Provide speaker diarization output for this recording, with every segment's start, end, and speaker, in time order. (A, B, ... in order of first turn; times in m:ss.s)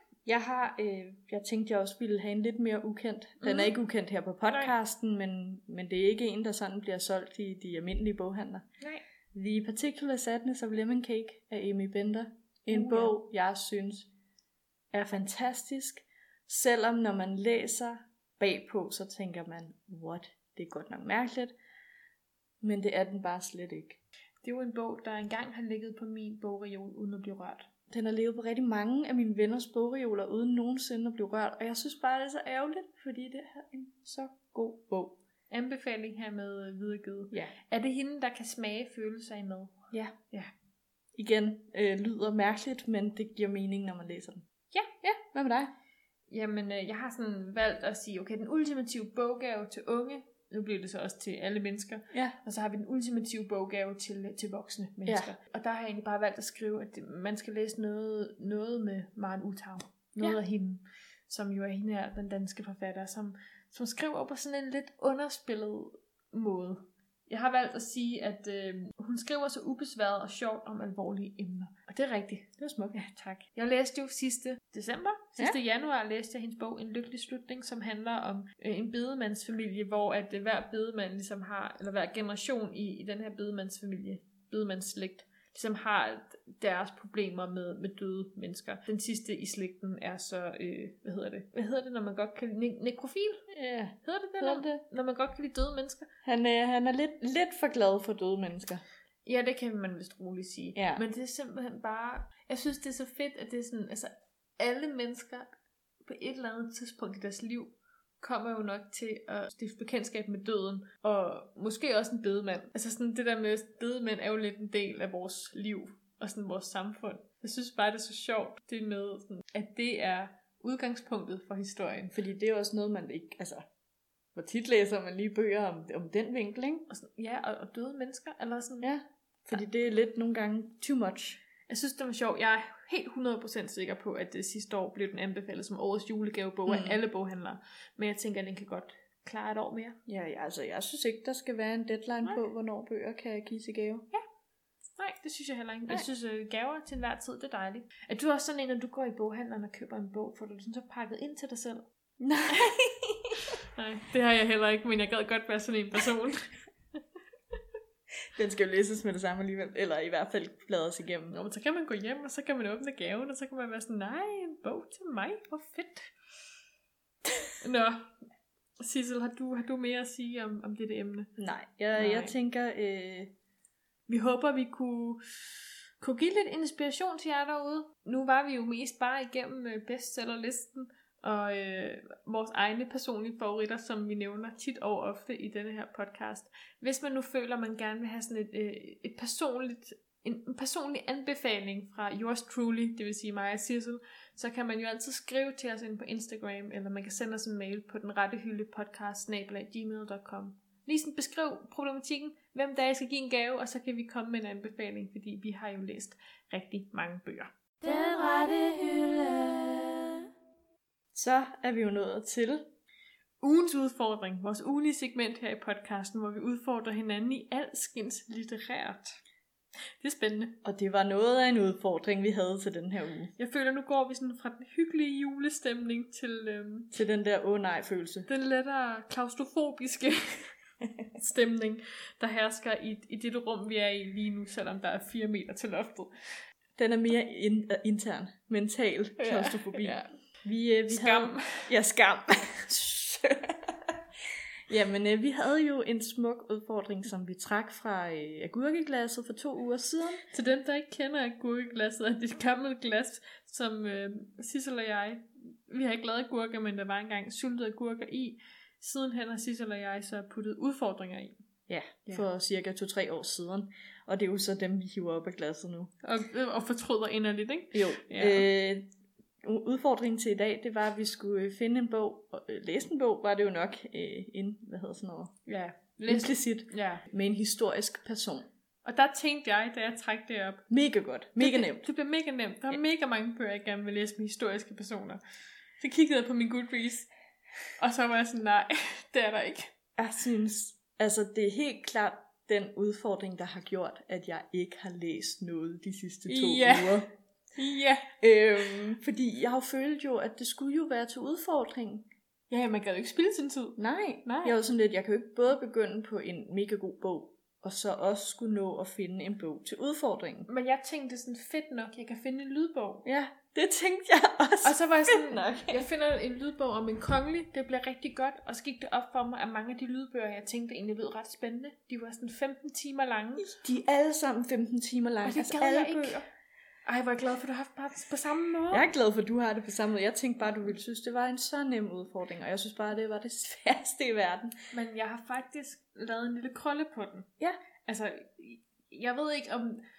0:00.3-0:08.7 A
0:03.4-0:03.7 B
0:09.3-0:14.1 A
0:12.7-0:13.1 B
0:14.9-0:21.5 A
0:22.6-0:24.0 A
0:24.4-0:27.6 B
0:27.9-0:35.2 A
0:35.5-0:40.5 B
0:41.2-0:44.4 A
0:44.7-0:45.0 B
0:45.0-0:45.7 A
0:46.3-1:33.5 B
0:52.1-0:52.4 A
0:55.0-0:55.3 A
1:12.6-1:13.0 A
1:33.5-1:34.8 A
1:34.0-1:36.1 B
1:36.2-1:38.8 A
1:39.2-1:45.5 B
1:40.8-1:41.0 A
1:46.0-2:02.1 B
2:02.1-2:03.6 A
2:04.4-2:06.8 A
2:06.9-2:08.9 B
2:08.8-2:11.4 A
2:11.7-2:20.0 B
2:16.7-2:17.0 A
2:20.1-2:24.1 A
2:25.0-2:31.9 B
2:32.2-2:33.5 A
2:33.7-2:36.6 B
2:38.4-2:41.4 A
2:41.3-2:46.1 B
2:47.6-2:48.1 B
2:48.8-2:51.3 B
2:51.4-2:53.3 A
2:52.0-2:52.3 B
2:54.1-2:55.4 B
2:56.0-3:27.5 B
3:27.8-3:30.2 C
3:31.1-3:32.7 A
3:33.4-3:39.2 B
3:40.0-3:40.6 B
3:40.6-3:43.3 A
3:43.4-3:46.9 B
3:46.9-3:48.3 A
3:48.3-3:50.5 B
3:51.2-3:56.1 B
3:56.8-4:04.0 A
3:59.2-4:00.1 B
4:00.9-4:01.7 B
4:04.7-4:10.2 A
4:10.3-4:21.4 B
4:21.7-4:25.9 A
4:26.0-4:28.5 B
4:27.7-4:28.9 A
4:29.4-4:35.3 A
4:35.5-4:37.0 B
4:36.1-4:38.5 A
4:38.8-4:40.6 B
4:40.7-4:41.9 A
4:41.4-4:45.2 B
4:45.8-4:47.1 B
4:47.8-4:49.7 B
4:50.0-4:57.1 A
4:56.3-4:57.0 B
4:57.6-4:58.2 B
4:58.2-5:02.1 A
5:02.5-5:04.5 B
5:03.8-5:10.5 A
5:10.5-5:13.1 B
5:13.0-5:15.9 A
5:14.6-5:23.6 B
5:23.4-5:26.2 A
5:25.2-5:26.2 B
5:26.8-5:28.8 B
5:28.7-5:34.6 A
5:34.7-5:37.3 B
5:37.8-5:39.8 B